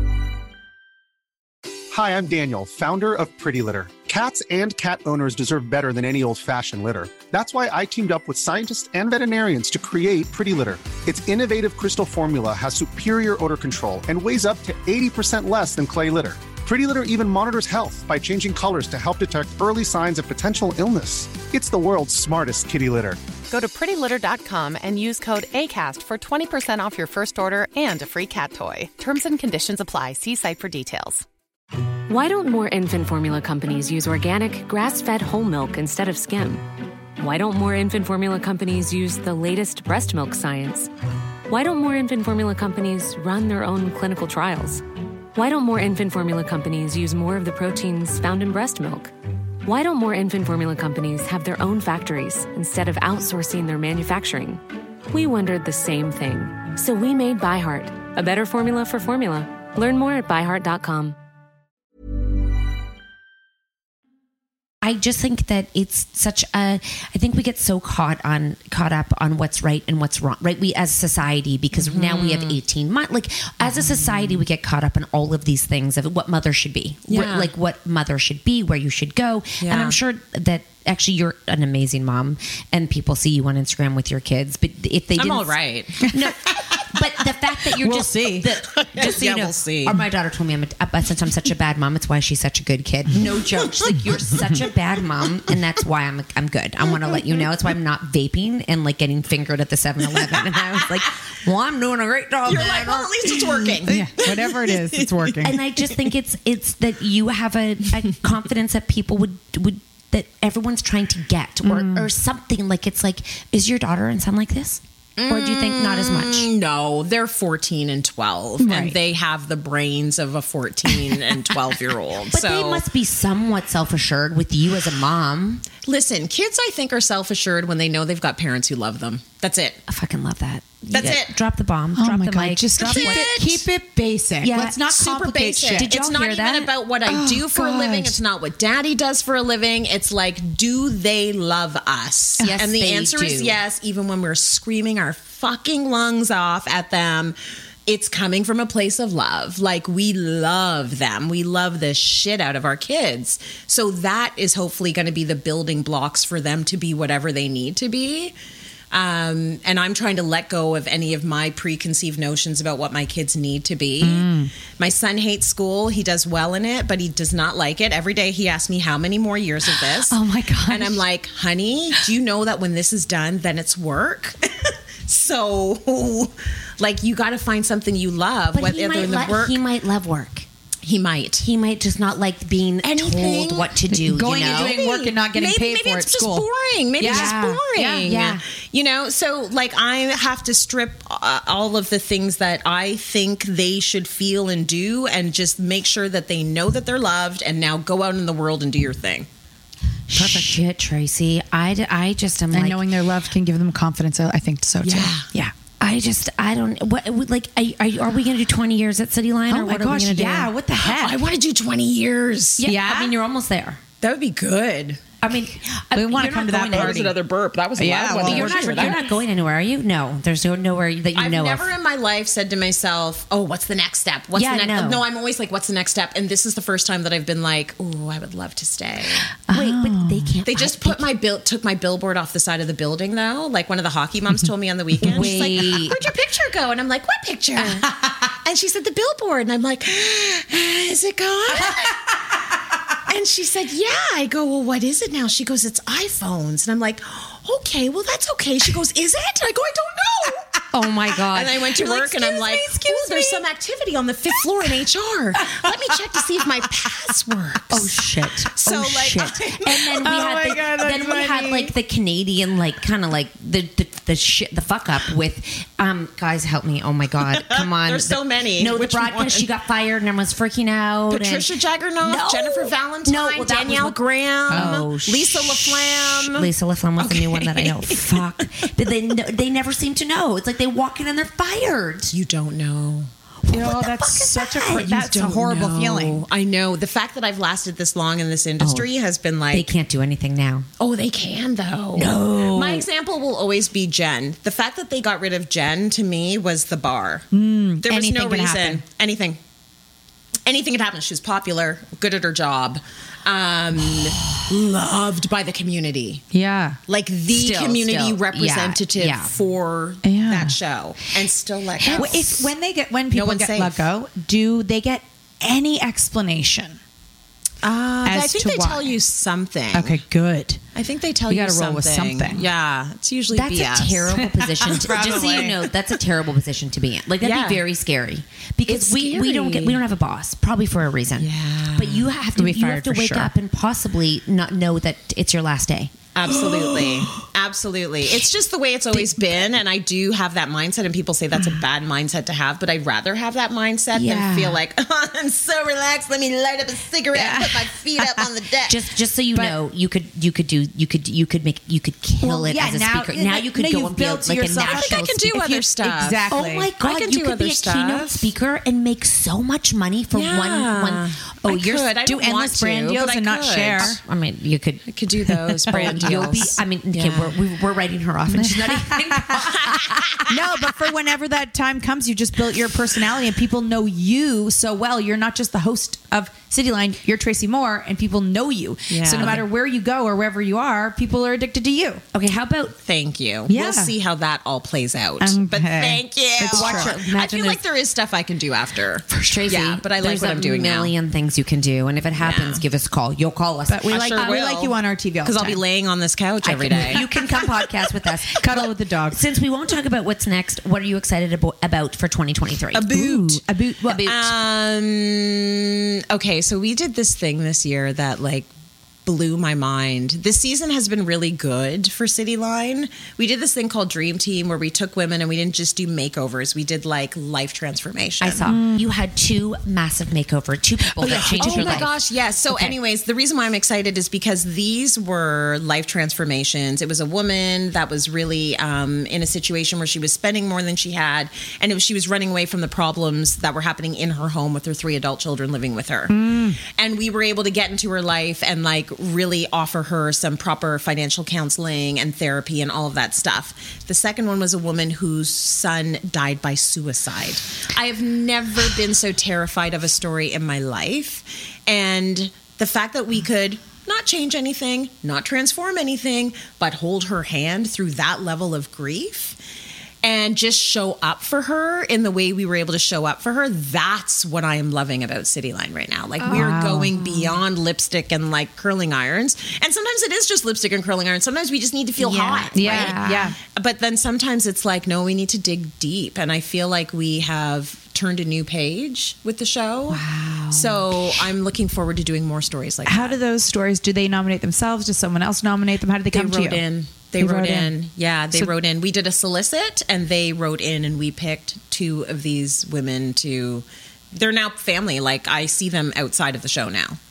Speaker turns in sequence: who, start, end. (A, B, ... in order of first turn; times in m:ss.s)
0:01.9-0:23.2 A
0:23.5-0:31.2 B
0:32.1-0:36.6 C
0:37.2-0:40.9 C
0:41.5-0:44.8 C
0:45.3-0:49.1 C
0:49.6-1:01.2 C
1:04.8-1:43.6 D
1:11.7-1:12.6 E
1:13.6-1:14.4 E
1:17.1-1:17.5 E
1:19.6-1:20.0 E
1:25.2-1:26.1 E
1:27.8-1:28.5 F
1:28.7-1:30.0 E
1:42.4-1:45.6 E
1:43.8-1:45.6 F
1:45.4-1:56.5 D
1:51.6-1:52.1 F
1:55.2-2:02.8 E
1:58.6-1:59.0 F
2:02.3-2:05.6 D
2:05.8-2:09.8 E
2:09.9-2:13.3 D
2:10.9-2:11.3 E
2:11.9-2:15.9 F
2:12.8-2:13.7 E
2:14.4-2:14.8 D
2:14.6-2:38.3 E
2:15.8-2:16.7 D
2:17.0-2:18.2 F
2:22.4-2:23.6 D
2:38.9-2:59.6 E
2:44.0-2:44.5 F
2:50.1-2:51.0 F
2:58.5-3:00.4 D
3:00.8-3:01.4 E
3:01.4-3:04.8 D
3:02.8-3:19.3 E
3:03.9-3:06.5 F
3:07.0-3:08.4 F
3:07.0-3:07.4 D
3:20.1-3:22.8 D
3:20.2-3:20.5 F
3:22.5-3:25.5 F
3:24.8-3:25.3 E
3:25.8-3:30.5 D
3:29.5-3:31.2 F
3:30.8-3:32.7 E
3:32.6-3:33.8 D
3:32.6-3:33.1 F
3:34.0-3:35.0 E
3:35.2-3:37.0 D
3:35.9-3:37.2 F
3:36.5-3:39.0 E
3:37.8-3:39.0 F
3:38.2-3:41.7 D
3:41.1-3:49.3 E
3:44.3-3:45.0 D
3:49.5-3:50.4 F
3:49.5-3:51.1 D
3:50.4-4:02.1 E
3:55.0-3:56.0 D
4:03.1-4:10.4 E
4:10.7-4:13.4 D
4:11.3-4:18.0 E
4:17.7-4:31.5 D
4:18.5-4:21.6 E
4:20.0-4:21.4 F
4:27.3-4:29.5 E
4:31.1-4:38.4 E
4:32.0-4:34.0 D
4:34.5-4:42.1 D
4:34.5-4:34.9 F
4:42.1-4:43.1 E
4:43.5-4:45.0 D
4:43.5-4:46.2 F
4:44.7-4:49.7 E
4:48.6-4:48.9 D
4:49.5-4:50.6 D
4:50.8-4:57.3 E
4:52.0-4:52.8 D
4:57.3-4:58.8 F
4:57.8-4:59.4 E
5:00.4-5:06.2 E
5:06.3-5:06.8 F
5:06.9-5:12.5 E
5:07.3-5:09.3 D
5:10.0-5:10.6 F
5:11.8-5:16.8 F
5:11.8-5:12.1 D
5:13.1-5:13.9 E
5:17.6-5:20.0 E
5:18.0-5:19.0 F
5:19.7-5:20.6 F
5:20.7-5:24.1 E
5:21.3-5:22.5 F
5:23.3-5:35.9 D
5:24.2-5:25.7 F
5:24.8-5:25.3 E
5:27.2-5:27.6 E
5:28.7-5:29.8 E
5:31.2-5:32.1 E
5:32.4-5:33.3 F
5:36.1-5:48.8 E
5:38.9-5:39.3 D
5:43.9-5:44.6 D
5:47.1-5:48.3 F
5:48.7-5:55.3 D
5:52.2-5:56.5 F
5:54.6-5:58.3 E
5:56.3-6:01.9 D
6:00.1-6:03.9 E
6:01.9-6:04.0 F
6:03.8-6:04.9 D
6:04.9-6:07.4 E
6:05.3-6:06.6 F
6:05.7-6:09.8 D
6:08.3-6:09.2 F
6:09.6-6:10.1 E
6:10.3-6:22.0 F
6:18.9-6:19.5 E
6:19.2-6:19.4 D
6:22.1-6:22.7 D
6:22.8-6:30.9 E
6:23.5-6:23.9 F
6:25.2-6:26.9 F
6:26.5-6:27.6 D
6:29.3-6:34.4 D
6:32.2-6:32.6 E
6:33.7-6:35.6 F
6:33.9-6:37.1 E
6:36.4-6:44.3 D
6:36.5-6:37.0 F
6:38.4-6:39.2 F
6:42.7-6:43.4 E
6:42.8-6:44.0 F
6:44.0-6:48.5 E
6:49.0-6:58.5 E
6:58.2-7:02.0 D
6:58.4-6:58.9 F
7:01.0-7:39.4 E
7:01.2-7:01.8 F
7:02.5-7:02.8 D
7:16.1-7:16.6 F
7:40.0-8:03.2 E
7:46.2-7:47.1 F
7:46.2-7:47.2 D
7:52.0-7:53.3 D
7:52.5-7:53.4 F
7:59.9-8:00.8 D
8:02.8-8:06.6 F
8:06.1-8:17.0 E
8:07.2-8:07.7 F